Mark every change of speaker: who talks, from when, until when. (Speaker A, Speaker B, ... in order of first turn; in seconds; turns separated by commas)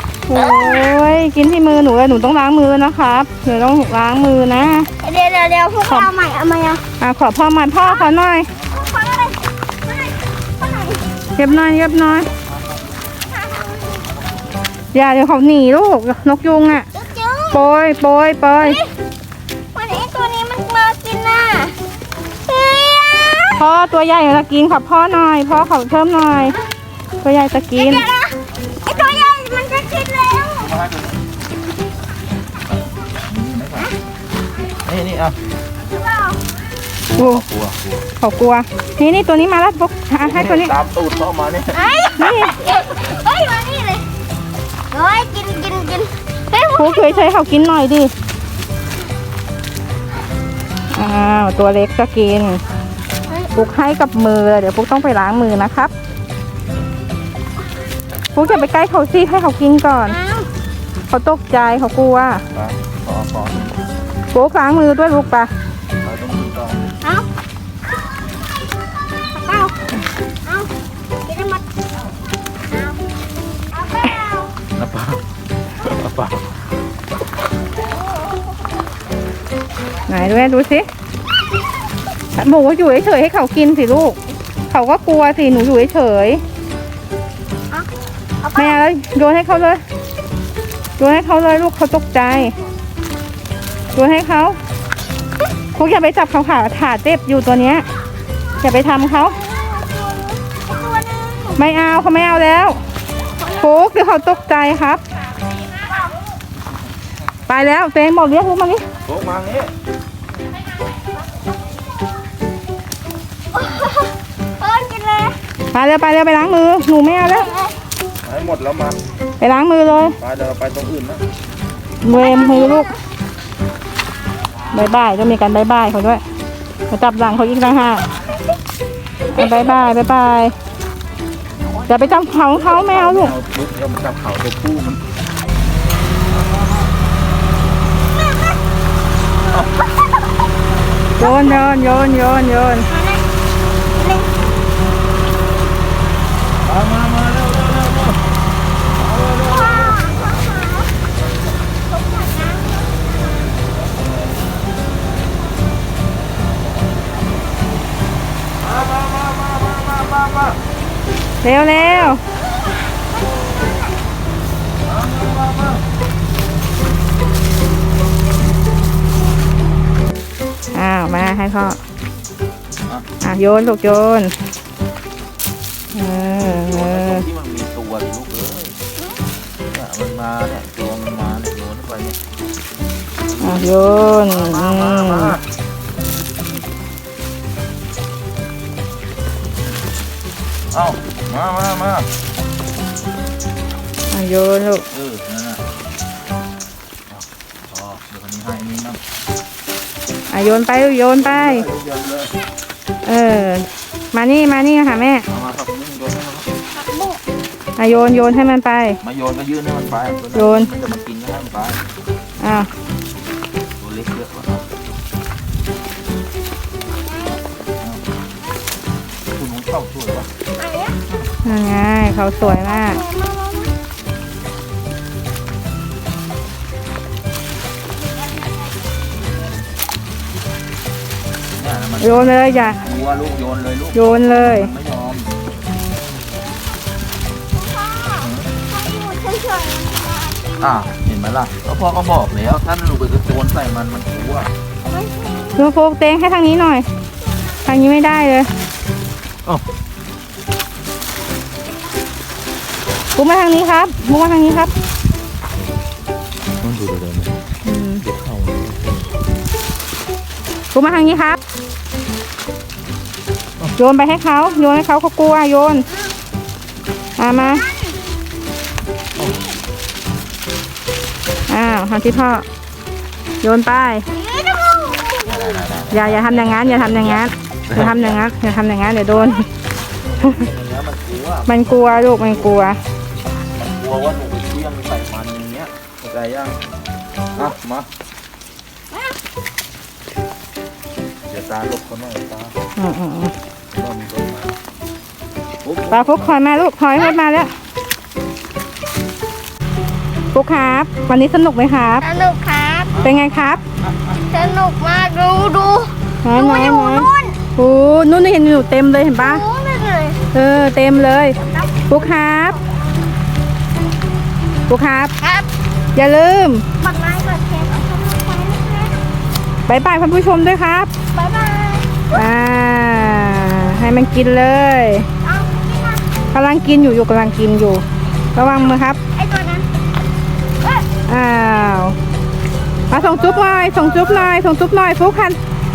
Speaker A: 0.3-4.9, Speaker B: 0.3-0.9, Speaker B: 5.0-6.8, Speaker A: 7.0-8.5, Speaker B: 7.8-11.0, Speaker A: 11.4-12.3, Speaker B: 13.3-14.2, Speaker A: 14.9-16.9, Speaker B: 16.9-17.7, Speaker A: 17.5-18.8, Speaker B: 18.6-18.9, Speaker B: 19.7-21.8, Speaker B: 22.5-23.7, Speaker A: 23.6-26.6, Speaker A: 27.2-28.1, Speaker B: 27.8-30.7, Speaker C: 30.6-31.2, Speaker C: 33.2-33.9, Speaker C: 34.8-35.4, Speaker B: 35.8-36.5, Speaker C: 37.1-38.0, Speaker A: 37.2-37.4, Speaker A: 38.2-40.7, Speaker C: 40.2-41.8, Speaker B: 41.7-44.1, Speaker A: 42.2-42.6, Speaker B: 44.9-47.3, Speaker A: 46.8-48.1, Speaker A: 50.9-52.6, Speaker B: 53.3-53.5, Speaker A: 53.5-55.9, Speaker A: 58.4-60.2, Speaker B: 58.4-58.7, Speaker B: 60.0-60.5, Speaker A: 61.1-62.5, Speaker C: 62.5-63.8, Speaker A: 64.3-65.5, Speaker C: 66.0-66.9, Speaker B: 67.0-67.3, Speaker B: 69.3-69.8, Speaker B: 70.5-70.7, Speaker B: 71.2-71.6, Speaker B: 72.7-73.0, Speaker B: 73.7-74.5, Speaker C: 74.7-75.2, Speaker C: 75.8-76.5, Speaker B: 77.9-78.5, Speaker A: 80.1-80.9, Speaker A: 82.3-84.2, Speaker A: 84.7-86.4, Speaker B: 88.4-88.8, Speaker A: 88.5-89.8, Speaker A: 91.0-92.5, Speaker A: 93.9-94.6, Speaker A: 95.8-97.9, Speaker A: 98.6-99.4, Speaker B: 99.1-101.6, Speaker A: 101.6-102.8, Speaker B: 103.4-103.8, Speaker A: 103.6-105.0, Speaker B: 105.7-106.2, Speaker A: 107.5-108.8, Speaker C: 109.0-109.7, Speaker B: 110.9-111.4, Speaker B: 113.5-115.4, Speaker A: 115.7-117.5, Speaker B: 117.3-117.8, Speaker C: 118.2-119.0, Speaker A: 119.4-120.2, Speaker C: 120.2-121.2, Speaker A: 122.0-122.9, Speaker C: 122.1-122.7, Speaker B: 122.5-122.8, Speaker A: 124.7-126.2, Speaker A: 126.9-128.1, Speaker A: 129.3-130.5, Speaker B: 131.7-132.6, Speaker A: 131.9-133.3, Speaker C: 132.7-135.0, Speaker B: 141.2-141.7, Speaker A: 141.2-142.9, Speaker B: 142.9-143.2, Speaker B: 143.9-144.3, Speaker C: 146.6-148.3, Speaker C: 148.9-150.1, Speaker B: 149.4-150.9, Speaker B: 151.8-153.6, Speaker C: 158.6-160.6, Speaker A: 161.4-162.2, Speaker B: 162.9-164.0, Speaker C: 164.8-165.8, Speaker A: 170.7-171.8, Speaker A: 173.2-174.3, Speaker A: 175.9-177.2, Speaker C: 176.7-178.8, Speaker C: 179.7-182.2, Speaker C: 183.3-185.4, Speaker A: 183.4-185.4, Speaker C: 190.7-192.1, Speaker A: 194.1-194.8, Speaker C: 194.9-195.6, Speaker C: 197.1-199.0, Speaker A: 200.3-201.7, Speaker C: 201.2-202.3, Speaker A: 203.1-205.3, Speaker C: 205.3-206.5, Speaker B: 206.7-207.2, Speaker A: 207.8-209.0, Speaker C: 209.0-211.8, Speaker A: 210.3-210.7, Speaker A: 212.4-212.7, Speaker C: 213.8-214.7, Speaker B: 216.9-217.4, Speaker C: 219.3-220.3, Speaker B: 220.6-221.0, Speaker A: 221.4-223.0, Speaker B: 222.4-223.7, Speaker C: 231.6-235.3, Speaker A: 232.0-232.8, Speaker A: 233.9-234.7, Speaker B: 237.5-240.9, Speaker C: 238.2-238.5, Speaker C: 240.6-244.5, Speaker B: 244.8-245.7, Speaker A: 245.6-246.9, Speaker B: 247.2-247.6, Speaker A: 247.7-248.5, Speaker A: 253.2-254.7, Speaker C: 256.6-257.4, Speaker A: 257.6-258.0, Speaker C: 258.0-259.1, Speaker A: 260.7-261.4, Speaker A: 263.8-265.9, Speaker A: 267.2-267.6, Speaker B: 267.3-268.0, Speaker B: 269.1-269.6, Speaker A: 271.5-272.5, Speaker A: 273.4-274.1, Speaker B: 274.1-275.8, Speaker C: 275.3-278.2, Speaker A: 275.9-279.5, Speaker C: 280.0-282.5, Speaker A: 281.5-282.8, Speaker C: 283.6-286.6, Speaker C: 287.4-287.9, Speaker C: 291.3-292.5, Speaker A: 292.8-293.3, Speaker C: 293.7-294.6, Speaker C: 295.6-296.4, Speaker A: 295.9-297.5, Speaker A: 300.3-302.1, Speaker B: 302.0-303.0, Speaker A: 303.0-303.6, Speaker B: 304.3-307.4, Speaker A: 306.2-309.4, Speaker B: 309.2-310.2, Speaker A: 310.3-311.4, Speaker B: 311.4-312.8, Speaker A: 311.9-312.6, Speaker A: 314.7-315.1, Speaker B: 315.2-315.5, Speaker A: 315.9-316.6, Speaker B: 316.8-319.0, Speaker A: 319.7-320.9, Speaker B: 321.1-322.2, Speaker A: 322.1-325.1, Speaker B: 325.2-326.0, Speaker A: 326.3-327.8, Speaker A: 328.4-329.0, Speaker B: 329.1-329.7, Speaker A: 331.1-332.0, Speaker C: 332.9-334.3, Speaker A: 332.9-335.4